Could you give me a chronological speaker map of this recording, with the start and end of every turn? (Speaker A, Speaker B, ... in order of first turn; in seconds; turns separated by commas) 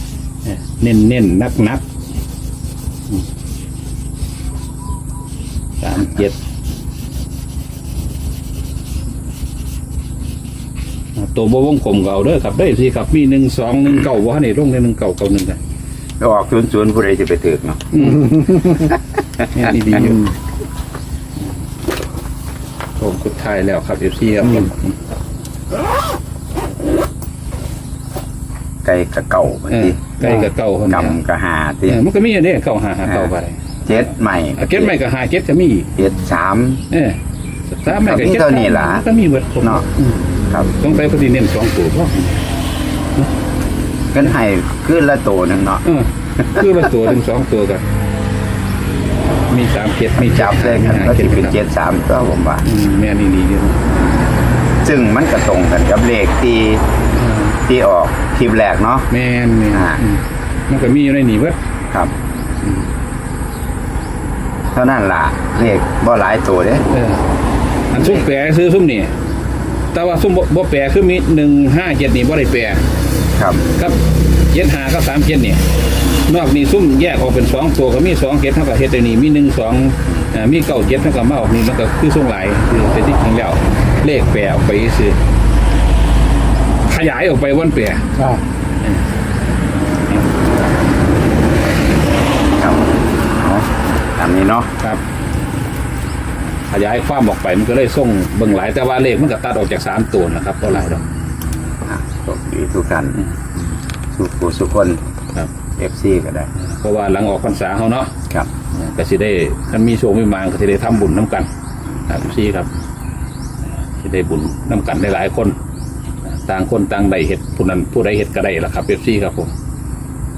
Speaker A: 0.4-1.8, Speaker A: 5.8-6.3, Speaker A: 11.2-15.6, Speaker B: 16.2-18.0, Speaker A: 17.9-18.6, Speaker B: 18.6-19.0, Speaker A: 19.5-20.3, Speaker A: 23.0-24.9, Speaker B: 28.8-30.2, Speaker A: 29.7-31.2, Speaker B: 30.9-32.0, Speaker A: 31.9-33.6, Speaker B: 33.0-33.3, Speaker B: 33.9-34.9, Speaker A: 34.6-35.9, Speaker B: 36.0-36.8, Speaker A: 36.9-37.2, Speaker A: 37.7-42.4, Speaker B: 37.9-39.0, Speaker B: 44.1-45.8, Speaker A: 45.8-47.8, Speaker B: 46.4-46.9, Speaker A: 49.5-51.6, Speaker B: 50.1-52.6, Speaker A: 52.6-53.9, Speaker B: 54.8-56.8, Speaker A: 57.1-57.6, Speaker B: 57.7-59.1, Speaker A: 59.1-61.6, Speaker B: 59.7-60.0, Speaker B: 64.7-66.8, Speaker A: 66.9-67.2, Speaker A: 67.9-69.1, Speaker B: 68.0-68.2, Speaker A: 69.9-72.8, Speaker B: 73.3-73.7, Speaker A: 74.5-75.6, Speaker A: 76.2-85.2, Speaker A: 86.8-88.1, Speaker B: 92.6-94.7, Speaker A: 96.7-101.0, Speaker B: 101.8-103.2, Speaker A: 103.1-103.4, Speaker B: 104.1-105.0, Speaker B: 105.8-106.5, Speaker A: 106.6-108.1, Speaker A: 108.7-111.5, Speaker A: 112.1-112.7, Speaker A: 114.0-115.5, Speaker A: 116.2-119.5